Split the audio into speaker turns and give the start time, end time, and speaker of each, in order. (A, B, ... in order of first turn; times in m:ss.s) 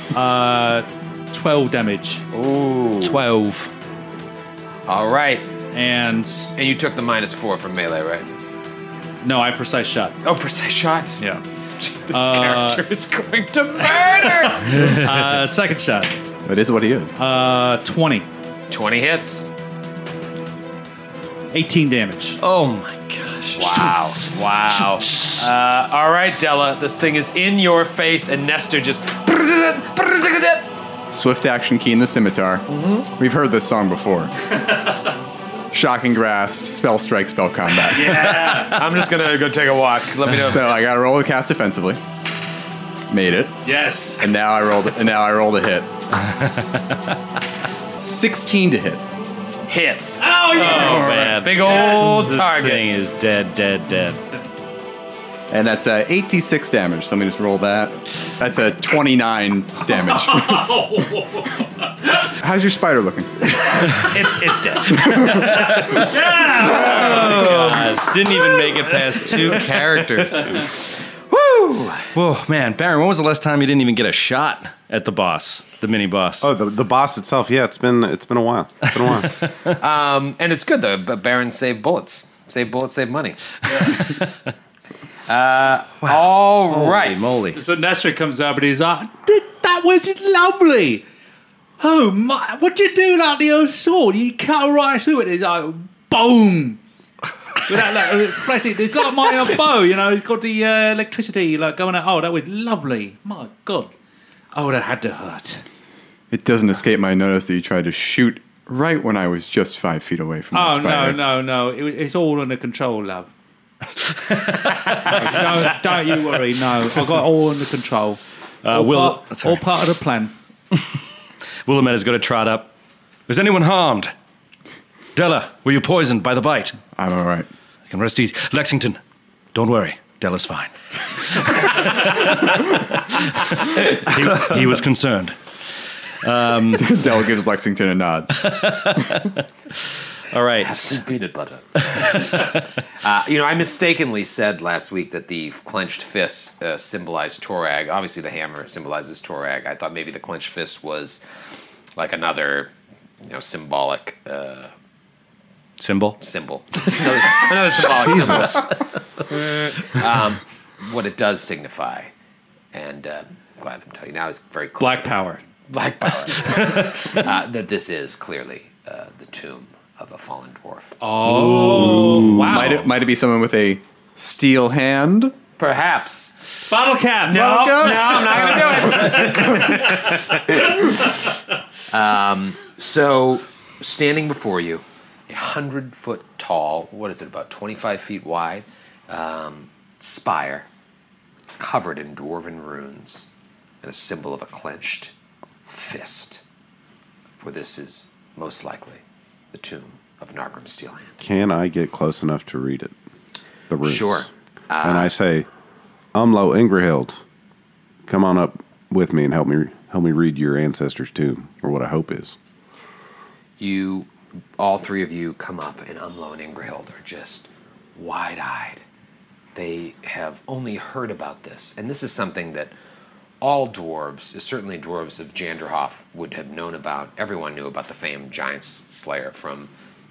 0:00.1-0:02.2 A
0:02.3-0:03.2 B
0:03.0-0:03.7 C
0:04.9-0:05.5 B
0:05.7-0:06.5 A
0:06.6-0:08.3 B
0:09.2-0:10.2 A
0:10.2-0:11.2 B
0:11.8-0:14.9 B
0:12.1-0:12.8 A
0:14.4-0:16.1 A
0:16.4-0:17.1 D
0:17.2-0:18.3 A
0:18.7-0:19.5 B
0:21.5-0:22.4 A
0:22.4-0:25.3 C
0:23.6-0:30.7 B
0:31.1-0:34.3 D
0:32.7-0:33.1 B
0:35.7-0:38.7 D
0:37.9-0:38.8 A
0:38.7-0:41.0 B
0:40.3-0:42.0 D
0:43.1-0:43.6 D
0:43.6-0:44.3 A
0:44.2-0:45.9 D
0:46.3-0:47.0 C
0:48.0-0:49.0 D
0:49.7-0:52.9 B
0:50.2-0:52.3 A
0:50.5-0:54.2 C
0:55.5-1:00.8 D
0:59.9-1:01.7 A
1:02.3-1:04.1 D
1:04.1-1:05.7 B
1:05.6-1:10.4 C
1:05.9-1:07.5 A
1:06.8-1:07.8 B
1:09.2-1:12.1 B
1:12.1-1:16.5 C
1:16.4-1:19.4 E
1:19.0-1:19.4 C
1:19.7-1:24.1 B
1:23.9-1:24.3 C
1:25.3-1:27.2 B
1:26.0-1:27.6 C
1:27.6-1:31.0 A
1:31.8-1:36.8 A
1:37.6-1:43.9 A
1:44.5-1:45.6 A
1:46.3-1:51.2 D
1:50.5-1:53.3 A
1:54.3-1:55.3 C
1:54.9-1:58.2 A
1:58.6-1:59.6 C
1:58.7-2:00.3 A
2:01.7-2:02.7 C
2:03.3-2:04.1 C
2:05.2-2:06.8 C
2:07.0-2:07.5 D
2:07.9-2:09.0 C
2:09.5-2:15.4 C
2:16.2-2:16.9 C
2:16.8-2:18.4 D
2:18.4-2:19.4 C
2:20.3-2:21.0 C
2:20.6-2:31.2 B
2:22.0-2:22.6 C
2:32.0-2:32.7 B
2:33.2-2:34.7 B
2:35.8-2:36.2 C
2:36.2-2:42.1 B
2:37.8-2:38.6 E
2:42.7-2:45.1 B
2:44.8-2:45.4 A
2:45.7-2:51.0 B
2:51.0-2:52.9 A
2:51.3-2:55.3 D
2:55.6-2:56.4 B
2:56.7-2:57.9 A
2:57.3-3:01.3 B
2:57.3-2:59.1 D
2:58.8-2:59.5 A
3:01.9-3:10.7 B
3:11.6-3:13.3 B
3:13.8-3:15.1 B
3:15.6-3:16.4 B
3:17.4-3:19.0 B
3:19.5-3:21.2 B
3:21.2-3:22.9 E
3:23.7-3:24.3 E
3:23.8-3:25.1 B
3:24.8-3:25.5 E
3:26.1-3:27.2 E
3:28.1-3:32.4 E
3:33.6-3:38.8 B
3:39.6-3:42.7 B
3:43.4-3:49.7 B